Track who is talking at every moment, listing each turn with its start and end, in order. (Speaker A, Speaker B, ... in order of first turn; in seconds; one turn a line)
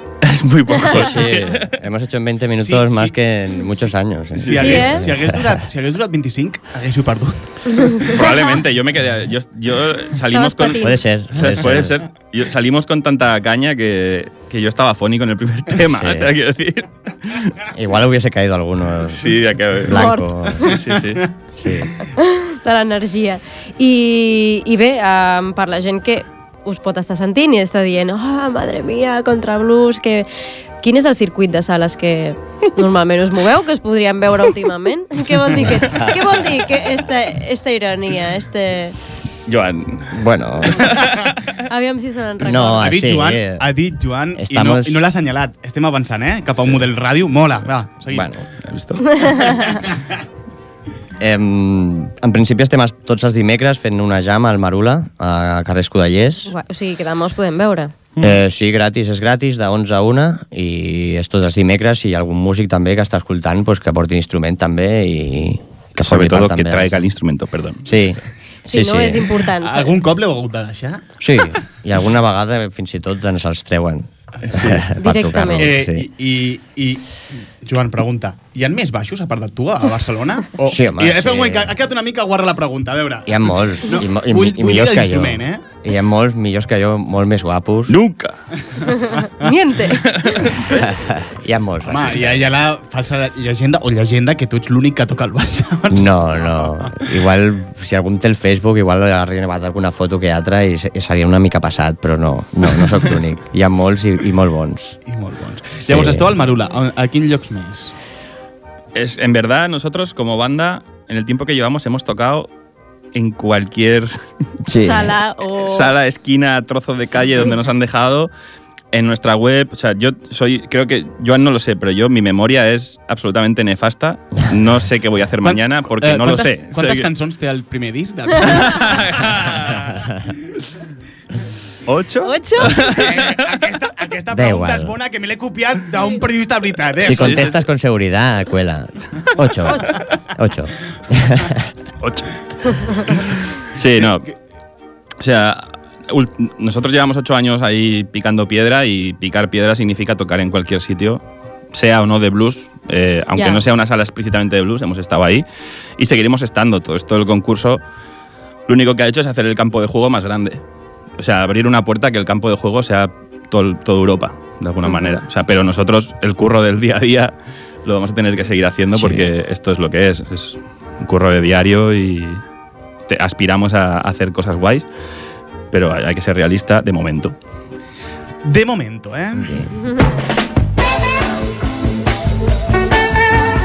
Speaker A: 0.2-1.8
Speaker B: 0.8-5.6
Speaker C: 2.6-3.1
Speaker C: 3.7-8.1
Speaker A: 4.3-4.8
Speaker D: 4.5-5.0
Speaker D: 7.7-8.5
Speaker A: 8.1-17.6
Speaker D: 10.3-11.0
Speaker B: 10.8-12.0
Speaker B: 15.9-16.3
Speaker B: 17.7-20.7
Speaker A: 19.1-21.3
Speaker D: 19.9-20.7
Speaker B: 21.6-21.9
Speaker D: 22.1-30.3
Speaker D: 30.8-39.0
Speaker B: 35.7-36.2
Speaker A: 39.5-41.3
Speaker B: 40.1-41.0
Speaker D: 41.6-43.0
Speaker B: 42.4-43.7
Speaker C: 42.8-48.3
Speaker B: 44.3-45.0
Speaker B: 48.1-48.4
Speaker A: 48.6-49.6
Speaker D: 49.1-49.8
Speaker B: 51.2-56.5
Speaker D: 56.5-57.9
Speaker B: 58.2-67.0
Speaker A: 66.0-67.8
Speaker B: 67.8-69.3
Speaker D: 68.6-69.9
Speaker C: 69.6-71.1
Speaker B: 71.2-76.1
Speaker C: 74.4-74.8
Speaker D: 75.0-75.7
Speaker C: 75.5-77.1
Speaker C: 77.6-85.7
Speaker B: 80.6-81.7
Speaker B: 83.2-88.0
Speaker A: 87.9-88.4
Speaker C: 88.7-89.5
Speaker D: 88.8-90.5
Speaker A: 90.0-90.8
Speaker B: 90.6-92.5
Speaker C: 91.8-97.1
Speaker B: 95.9-105.0
Speaker C: 105.1-107.9
Speaker B: 105.8-106.4
Speaker A: 108.9-112.5
Speaker A: 113.1-114.2
Speaker B: 114.6-115.1
Speaker D: 114.7-115.9
Speaker A: 115.6-118.3
Speaker A: 118.9-127.1
Speaker B: 124.3-124.6
Speaker C: 125.4-129.8
Speaker A: 128.4-129.9
Speaker A: 131.8-133.4
Speaker D: 132.2-132.9
Speaker C: 132.7-137.6
Speaker B: 134.3-134.9
Speaker D: 135.9-136.2
Speaker B: 137.0-141.7
Speaker A: 137.0-137.6
Speaker A: 142.0-144.3
Speaker D: 142.7-143.0
Speaker C: 144.0-144.3
Speaker A: 145.2-151.2
Speaker A: 151.7-155.4
Speaker D: 153.3-153.6
Speaker A: 156.0-157.8
Speaker A: 158.7-160.6
Speaker A: 161.2-172.4
Speaker D: 164.8-165.2
Speaker B: 168.9-169.3
Speaker A: 173.1-174.9
Speaker A: 175.7-177.3
Speaker C: 178.4-179.7
Speaker B: 179.3-179.7
Speaker D: 179.8-180.1